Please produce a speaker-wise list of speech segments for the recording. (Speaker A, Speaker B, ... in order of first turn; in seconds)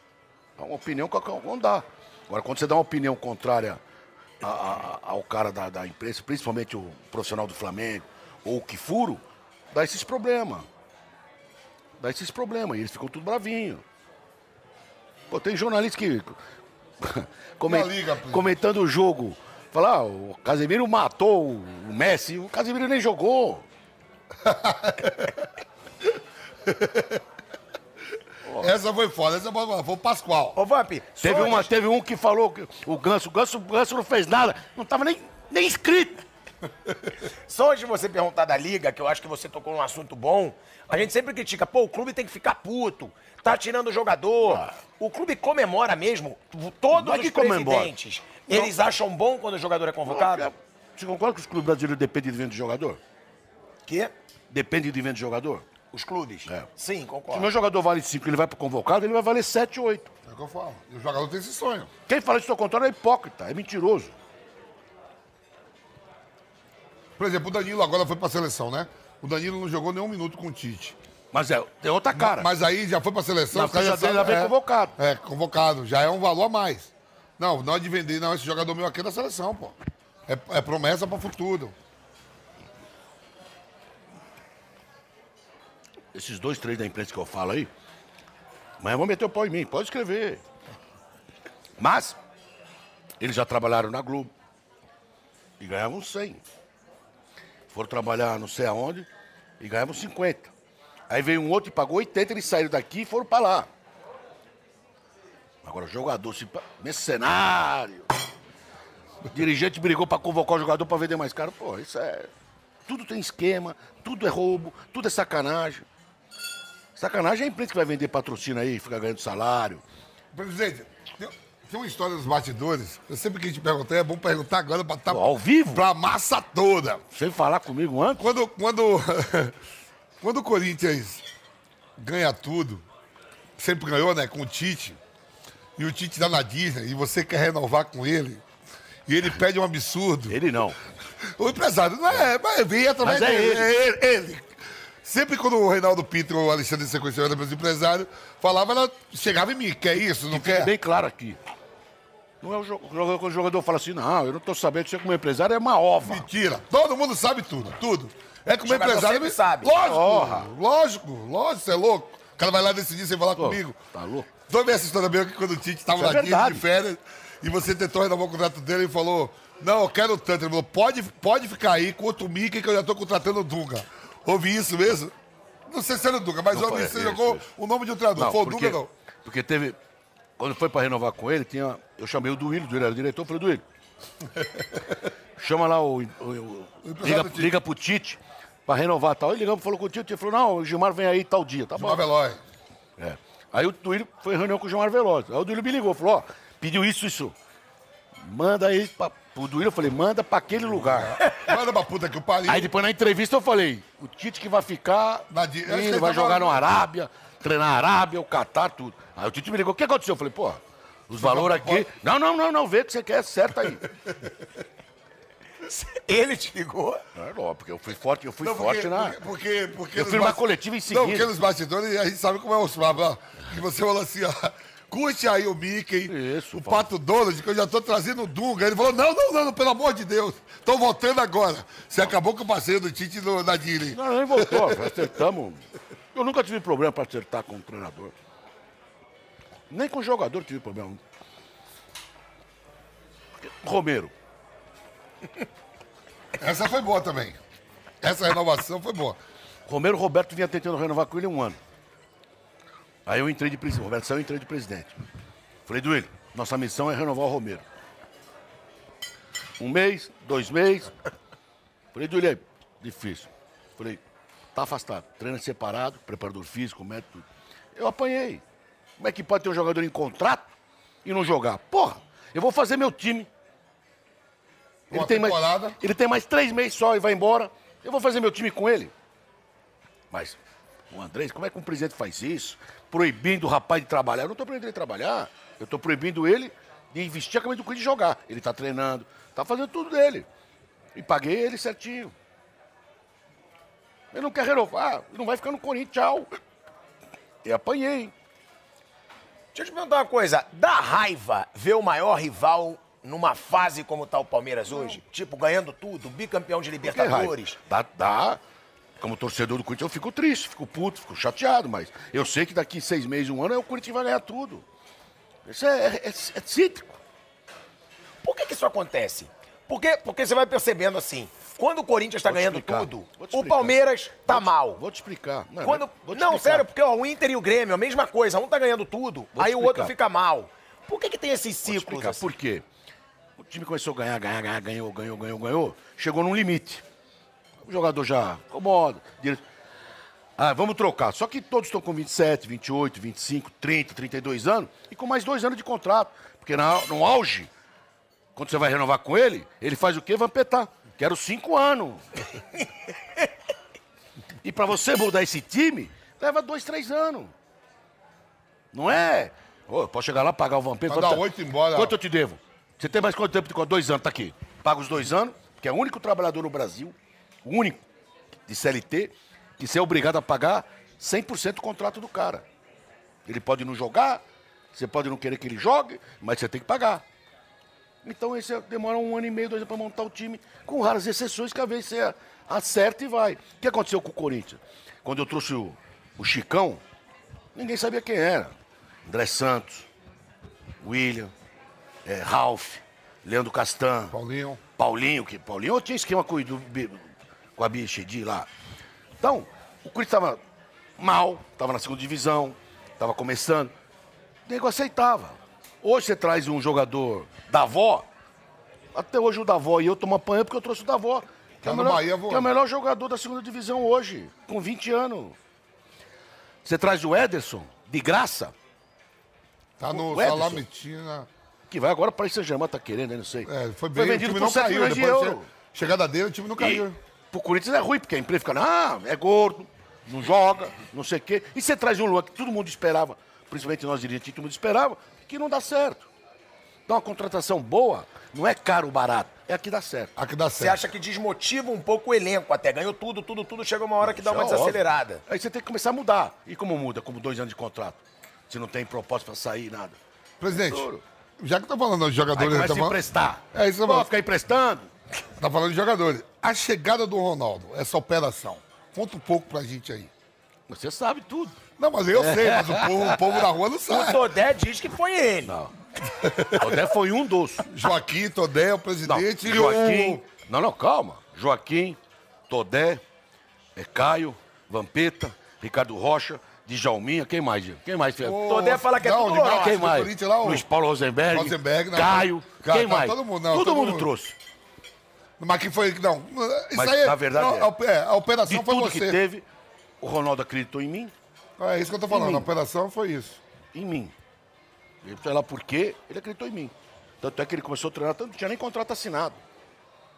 Speaker A: 0.6-3.8, 4.4-10.7, 12.0-13.8, 15.3-16.4, 17.0-23.6, 28.5-28.7, 31.2-36.2, 46.9-47.9, 50.1-53.0, 54.5-55.6, 57.3-60.1, 62.1-64.1, 71.3-72.5, 73.5-75.0, 86.1-87.7, 88.8-90.4, 91.8-92.2, 93.2-94.3, 95.6-96.4, 97.7-99.1, 99.6-100.5, 101.1-103.7, 105.6-108.1, 109.3-112.3, 112.9-115.8, 117.0-119.8, 125.1-125.8, 127.1-128.2, 140.3-140.8, 143.0-143.7, 150.3-151.4, 152.4-156.3, 159.8-160.5, 163.4-164.3, 166.0-166.7, 176.5-177.5, 178.2-179.8, 180.4-183.6, 185.4-192.0, 193.0-197.3, 198.2-201.2, 202.5-213.8, 217.2-219.2, 219.9-221.3, 226.1-226.9, 233.9-238.1, 239.7-241.0, 243.4-244.1, 249.7-251.6, 253.1-255.0, 255.7-257.6, 259.6-260.9, 261.9-264.0, 264.5-267.2, 267.8-268.4, 269.0-270.5, 271.0-273.3, 274.9-278.9, 280.1-280.4, 280.9-290.3, 290.9-292.1, 294.1-296.3, 297.4-298.1, 306.8-308.4, 309.0-314.6, 315.5-317.0, 322.3-326.7, 329.4-329.9, 331.7-332.6, 333.4-336.8, 337.6-339.4, 340.4-347.5, 348.4-352.0, 354.4-357.3, 358.7-367.9, 368.5-372.4, 373.3-374.2, 374.7-377.0, 378.0-386.8, 387.6-388.5, 389.1-389.9, 390.8-391.3, 392.1-394.2, 394.8-397.0, 397.6-398.5, 399.2-400.4, 401.0-403.7, 404.5-408.1, 408.9-415.4, 416.6-418.5, 419.9-420.6, 421.7-425.5, 426.6-436.1, 436.9-440.1, 444.0-450.0, 450.5-451.0, 452.4-454.9, 460.7-461.6, 462.1-463.4, 465.4-465.7, 466.6-467.7, 469.0-472.0, 472.5-473.0, 473.8-478.4, 479.4-484.4, 486.7-487.7, 488.5-489.5, 490.0-491.1, 492.1-492.5, 493.7-494.1, 495.0-499.4
Speaker B: 17.6-18.6, 24.4-25.4, 26.6-27.2, 28.6-30.6, 60.3-61.9, 67.2-71.0, 72.2-79.8, 80.3-81.8, 120.3-127.0, 128.2-129.6, 130.2-131.2, 132.0-132.8, 133.6-135.0, 135.8-138.4, 139.1-140.4, 141.2-144.5, 145.0-150.7, 156.0-163.8, 164.5-175.1, 175.7-178.9, 186.8-187.5, 191.8-192.4, 200.7-202.7, 205.3-206.7, 211.2-211.9, 218.4-235.1, 246.4-247.4, 248.0-249.2, 274.9-275.8, 360.9-362.0, 394.1-394.6, 411.6-412.5, 419.8-421.3, 423.4-427.0, 440.2-440.8, 450.4-453.0, 453.5-454.1, 455.4-460.1, 461.8-464.3, 466.0-466.8, 467.7-470.2, 478.2-480.6, 481.3-484.1, 485.4-489.2, 491.6-493.4
Speaker C: 30.6-31.7, 37.5-50.5, 53.9-54.1, 55.9-57.5, 158.7-159.7, 215.7-217.0, 299.6-307.6, 318.2-324.8, 325.6-332.3, 440.6-445.2, 463.9-465.5, 478.4-479.8